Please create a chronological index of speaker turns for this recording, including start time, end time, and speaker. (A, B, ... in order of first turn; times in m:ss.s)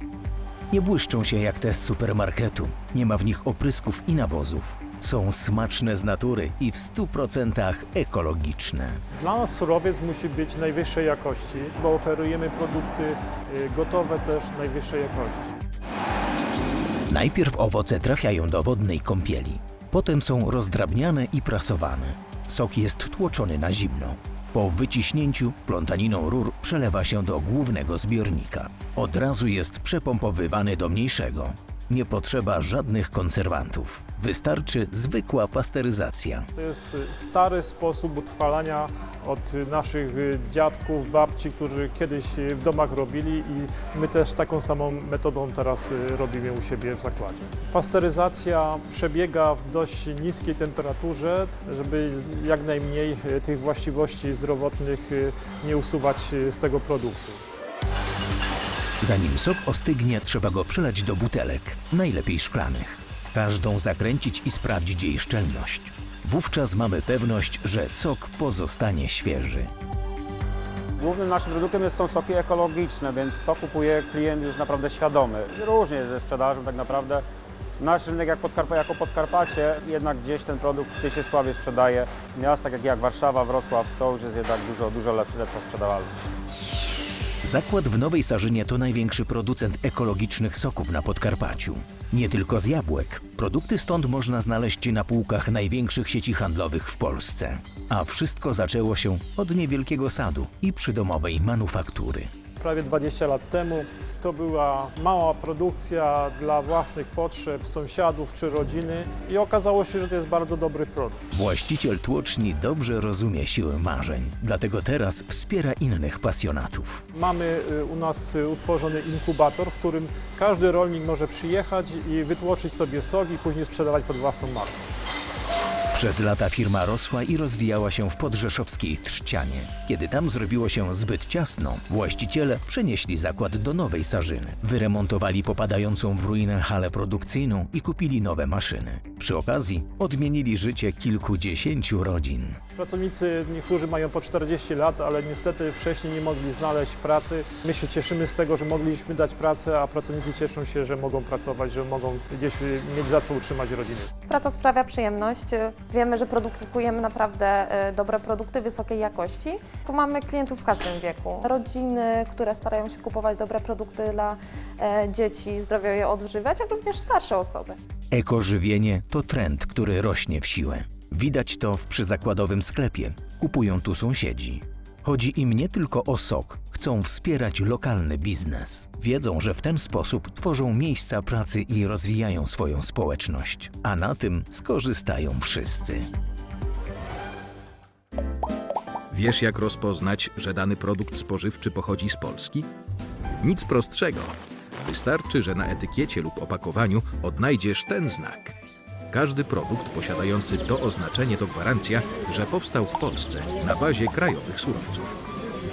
0:00.7-0:09.0 A
0:09.2-0:15.6 B
0:17.1-0:36.5 A
0:36.5-0:57.4 B
0:59.0-1:09.7 A
1:11.0-1:17.2 C
1:17.8-1:26.2 C
1:27.4-1:42.3 A
1:42.6-1:51.2 B
1:51.3-1:57.0 A
1:57.1-2:04.8 B
2:05.9-2:22.6 A
2:22.8-2:34.1 B
2:34.3-2:47.8 D
2:48.1-3:06.1 A
3:09.1-3:12.7 E
3:13.4-3:18.5 E
3:19.1-3:25.2 E